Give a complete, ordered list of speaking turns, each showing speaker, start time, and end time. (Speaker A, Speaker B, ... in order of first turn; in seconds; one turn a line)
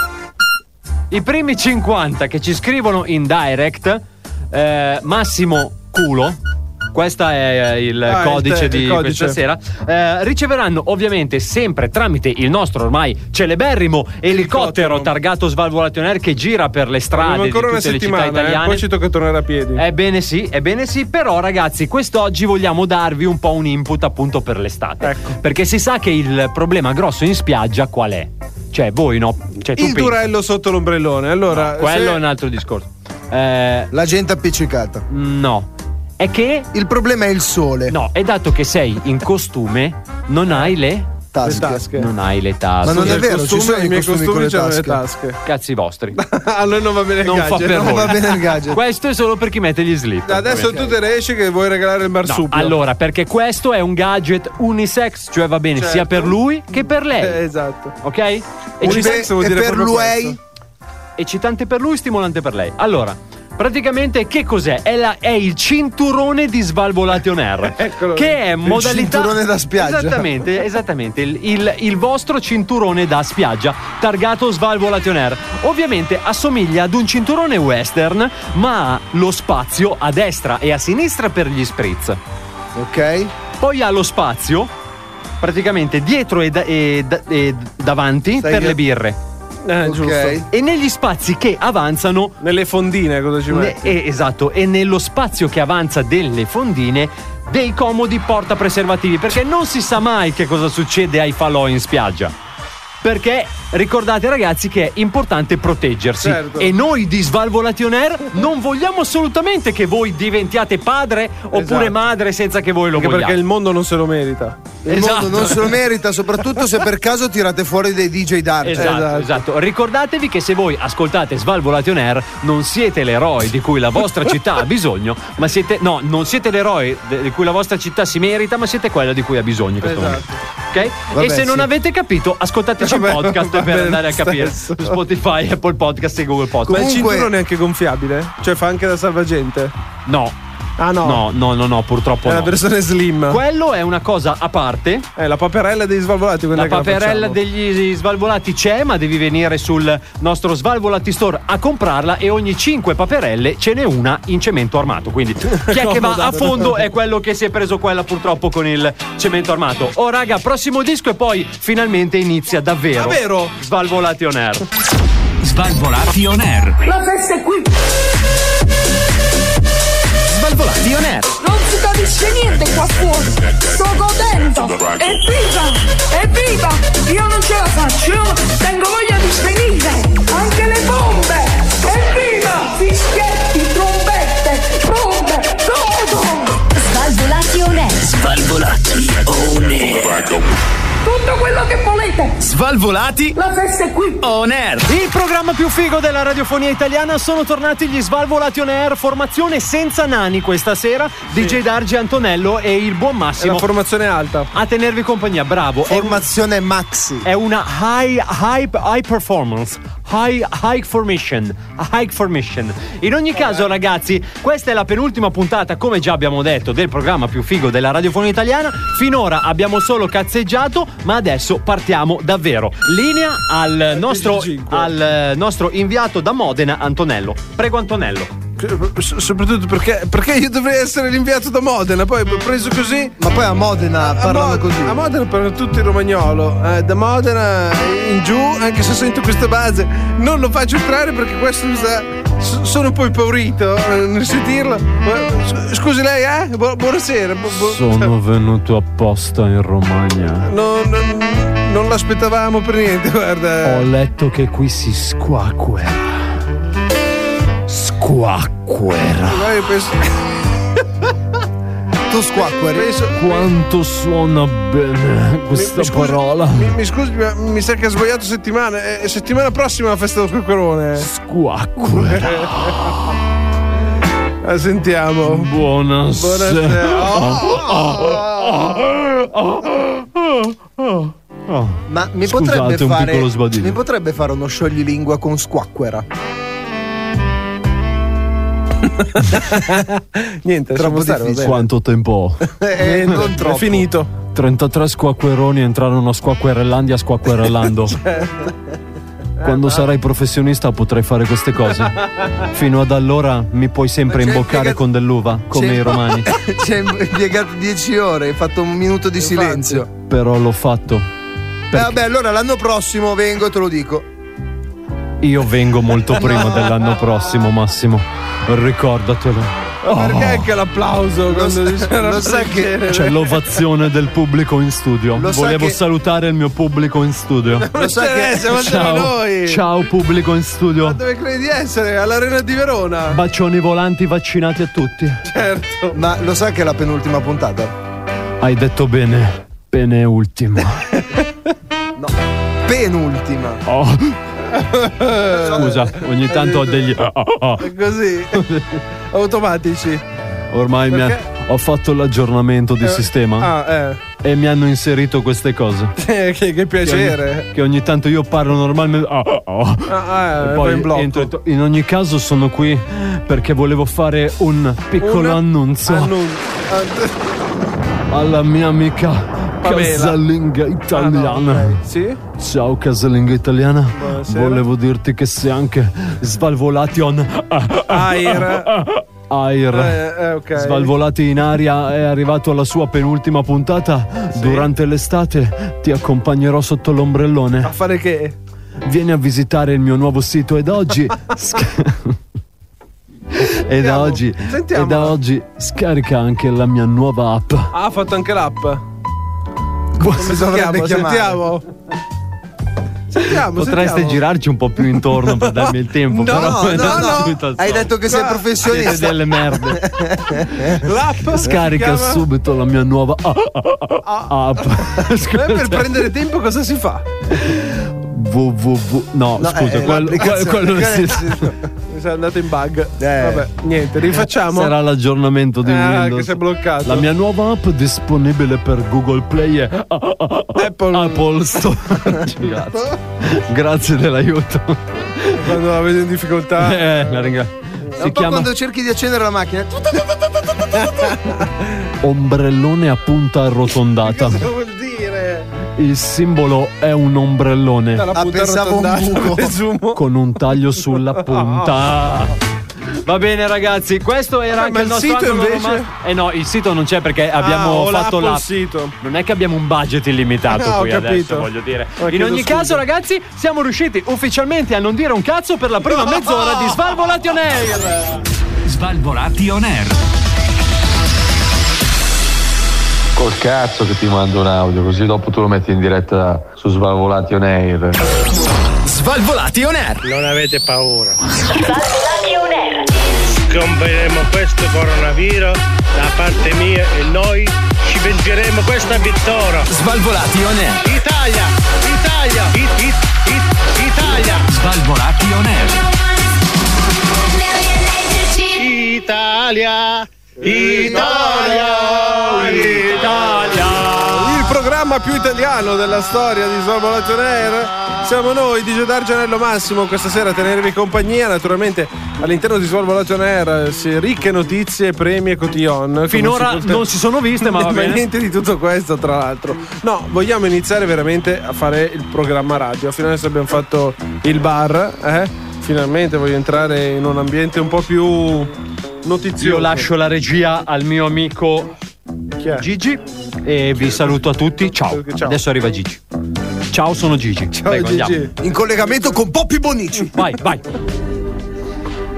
Speaker A: 1.1-6.4
Speaker A: 6.9-18.8
Speaker B: 8.1-9.4
Speaker B: 14.3-15.1
Speaker B: 17.1-19.8
Speaker A: 19.8-30.3
Speaker B: 25.0-25.4
Speaker B: 29.8-32.2
Speaker A: 31.5-33.9
Speaker C: 33.9-35.0
Speaker A: 35.1-36.7
Speaker C: 36.7-38.0
Speaker A: 37.9-41.1
Speaker C: 41.3-41.9
Speaker B: 41.4-42.1
Speaker A: 41.9-43.2
Speaker C: 42.8-45.0
Speaker B: 42.8-45.4
Speaker A: 45.5-46.2
Speaker B: 46.2-48.4
Speaker A: 47.2-50.8
Speaker C: 47.7-48.8
Speaker B: 50.3-52.8
Speaker A: 52.3-57.4
Speaker B: 55.8-58.0
Speaker A: 58.0-59.2
Speaker B: 58.8-60.4
Speaker C: 58.8-60.4
Speaker A: 61.2-82.2
Speaker B: 67.7-68.5
Speaker C: 68.7-70.3
Speaker C: 82.8-83.3
Speaker A: 83.6-84.7
Speaker A: 85.4-89.2
Speaker C: 88.4-88.8
Speaker B: 89.7-90.4
Speaker C: 89.8-90.5
Speaker A: 90.5-92.4
Speaker B: 92.4-94.0
Speaker A: 93.5-102.3
Speaker A: 103.0-113.4
Speaker B: 106.2-106.7
Speaker B: 111.5-112.0
Speaker B: 113.0-115.6
Speaker A: 114.9-115.7
Speaker C: 114.9-119.0
Speaker A: 118.6-136.9
Speaker B: 118.8-119.4
Speaker B: 129.8-130.4
Speaker C: 131.1-131.7
Speaker B: 132.8-135.0
Speaker C: 136.7-137.3
Speaker B: 136.7-139.7
Speaker A: 140.1-140.4
Speaker B: 140.8-141.2
Speaker A: 141.0-142.6
Speaker B: 142.2-143.4
Speaker A: 143.3-145.1
Speaker B: 145.2-147.4
Speaker A: 146.6-164.7
Speaker B: 155.6-156.8
Speaker B: 163.0-163.5
Speaker D: 165.4-166.8
Speaker E: 166.8-167.8
Speaker D: 170.3-171.3
Speaker E: 171.4-186.6
Speaker D: 186.8-190.4
Speaker E: 191.1-192.4
Speaker D: 192.4-193.3
Speaker E: 193.3-194.3
Speaker D: 194.2-194.9
Speaker A: 194.9-203.7
Speaker B: 201.3-201.6
Speaker B: 203.4-204.5
Speaker A: 204.5-206.2
Speaker C: 205.9-207.3
Speaker A: 207.2-228.3
Speaker B: 223.9-224.9
Speaker B: 228.6-233.2
Speaker C: 233.2-235.0
Speaker B: 234.0-248.1
Speaker A: 247.5-250.5
Speaker B: 250.5-253.9
Speaker A: 253.6-256.3
Speaker A: 257.7-259.5
Speaker B: 259.3-260.3
Speaker C: 262.1-262.9
Speaker B: 262.7-263.5
Speaker A: 263.1-266.7
Speaker B: 265.5-271.1
Speaker A: 271.0-273.1
Speaker B: 271.9-273.1
Speaker B: 274.4-275.5
Speaker A: 275.2-283.8
Speaker B: 276.2-278.2
Speaker C: 277.5-278.1
Speaker C: 281.9-286.1
Speaker B: 289.0-291.6
Speaker C: 290.8-291.6
Speaker A: 291.4-292.5
Speaker B: 292.6-294.1
Speaker C: 292.6-293.9
Speaker A: 294.3-298.0
Speaker B: 298.0-298.5
Speaker A: 299.4-306.3
Speaker B: 299.4-299.8
Speaker C: 304.1-304.8
Speaker C: 305.5-309.9
Speaker B: 309.2-309.9
Speaker A: 310.1-311.1
Speaker A: 311.7-312.0
Speaker C: 311.7-314.1
Speaker A: 315.2-320.5
Speaker B: 316.2-316.8
Speaker B: 319.8-323.6
Speaker C: 321.3-322.8
Speaker A: 322.9-327.7
Speaker C: 325.2-325.8
Speaker B: 327.6-329.6
Speaker C: 327.7-328.6
Speaker A: 328.5-331.0
Speaker B: 330.8-333.2
Speaker A: 333.1-335.2
Speaker B: 335.3-336.0
Speaker C: 335.9-337.7
Speaker A: 338.4-340.9
Speaker C: 342.6-343.6
Speaker A: 343.7-344.2
Speaker B: 344.5-346.9
Speaker C: 345.3-345.8
Speaker A: 345.5-347.6
Speaker B: 347.6-348.5
Speaker A: 348.4-348.6
Speaker B: 349.1-350.0
Speaker A: 350.5-353.5
Speaker B: 350.9-351.2
Speaker B: 352.8-354.0
Speaker A: 354.2-355.9
Speaker B: 356.0-357.5
Speaker A: 356.8-366.1
Speaker B: 359.9-361.3
Speaker B: 365.0-367.2
Speaker A: 368.1-371.8
Speaker B: 369.6-370.2
Speaker B: 370.9-372.2
Speaker A: 372.4-378.4
Speaker B: 373.9-374.6
Speaker B: 377.9-378.7
Speaker A: 379.3-380.0
Speaker B: 379.7-380.9
Speaker A: 380.6-387.7
Speaker B: 384.4-384.7
Speaker B: 387.6-388.4
Speaker A: 388.8-392.2
Speaker A: 393.4-397.7
Speaker B: 393.7-395.2
Speaker B: 397.7-398.8
Speaker C: 400.0-401.4
Speaker B: 400.2-401.6
Speaker B: 403.1-404.2
Speaker A: 403.5-407.9
Speaker B: 404.9-407.4
Speaker C: 406.2-410.9
Speaker B: 407.9-408.5
Speaker A: 408.6-409.8
Speaker B: 410.7-412.2
Speaker A: 411.4-415.9
Speaker B: 414.1-417.1
Speaker A: 417.3-421.4
Speaker C: 419.4-421.5
Speaker B: 419.8-420.7
Speaker B: 421.9-424.7
Speaker C: 423.0-423.5
Speaker A: 424.5-435.5
Speaker B: 425.6-427.1
Speaker B: 430.6-431.6
Speaker B: 435.4-437.4
Speaker A: 436.6-438.5
Speaker C: 438.0-440.0
Speaker B: 440.7-441.7
Speaker A: 442.0-444.4
Speaker B: 444.0-445.5
Speaker A: 445.8-448.1
Speaker B: 448.0-450.0
Speaker C: 448.1-449.5
Speaker A: 449.9-452.4
Speaker B: 451.2-451.7
Speaker A: 453.1-458.5
Speaker B: 454.5-455.9
Speaker B: 457.4-458.9
Speaker A: 459.0-468.2
Speaker B: 460.5-462.8
Speaker B: 465.9-466.8
Speaker D: 468.7-470.0
Speaker F: 473.2-478.0
Speaker D: 478.8-480.0
Speaker G: 480.0-481.2
Speaker D: 481.6-482.6
Speaker G: 483.5-489.7
Speaker D: 489.7-490.8
Speaker G: 490.8-494.5
Speaker D: 494.5-495.9
Speaker G: 498.5-502.6
Speaker B: 500.4-503.1
Speaker A: 502.5-504.4
Speaker B: 503.9-528.5
Speaker A: 516.1-518.0
Speaker B: 529.0-529.9
Speaker A: 529.4-531.7
Speaker B: 532.4-532.7
Speaker A: 532.6-536.0
Speaker B: 533.8-534.1
Speaker B: 534.9-535.4
Speaker A: 536.7-538.3
Speaker B: 537.6-538.4
Speaker C: 538.4-540.1
Speaker A: 540.1-540.6